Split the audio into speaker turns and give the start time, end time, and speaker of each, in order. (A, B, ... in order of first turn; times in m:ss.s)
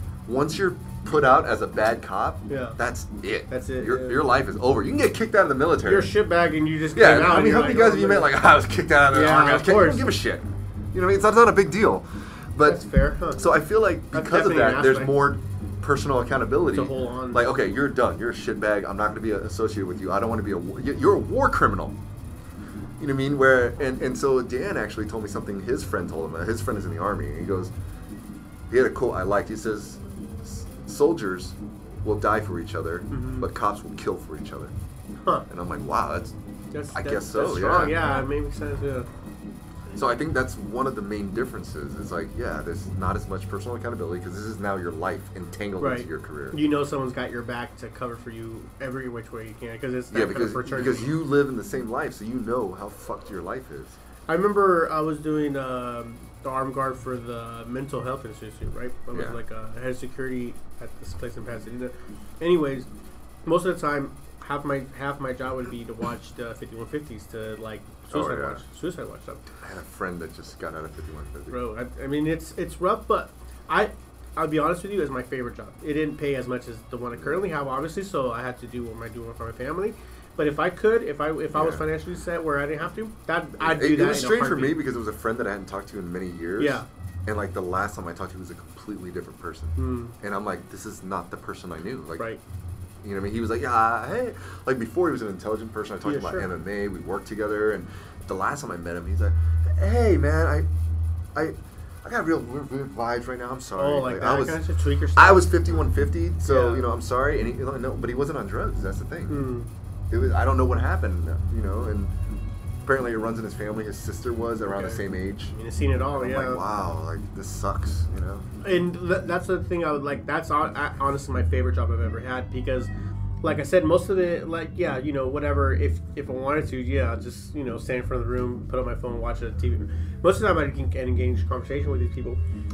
0:00.2-0:06.1 A
0:02.5-0:02.8 B
0:03.5-0:04.2 B
0:05.8-0:08.3 B
0:06.9-0:12.8 A
0:09.1-0:10.1 B
0:12.6-0:13.5 B
0:13.3-0:22.0 A
0:14.1-0:15.2 B
0:16.7-0:17.4 B
0:23.0-0:27.7 A
0:28.7-0:34.7 A
0:33.1-0:33.5 B
0:35.5-0:36.3 A
0:36.7-0:39.1 B
0:36.9-0:38.2 A
0:39.9-0:46.6 A
0:45.8-0:51.1 B
0:50.1-0:54.0 A
0:54.3-1:02.9 B
0:59.1-0:59.4 A
1:03.4-1:09.4 B
1:08.1-1:08.6 A
1:09.6-1:11.6 A
1:11.5-1:24.8 B
1:21.5-1:21.8 A
1:23.6-1:32.3 A
1:26.6-1:26.9 B
1:29.8-1:30.1 B
1:33.0-1:40.7 A
1:36.0-1:36.5 B
1:41.3-1:44.6 A
1:43.8-1:45.5 B
1:45.2-1:49.5 A
1:46.4-1:46.8 B
1:49.3-1:49.7 B
1:50.1-1:52.1 A
1:52.8-1:55.5 A
1:54.6-1:55.0 B
1:55.5-1:56.6 B
1:56.1-1:58.4 A
1:58.6-2:02.9 B
2:03.4-2:12.4 B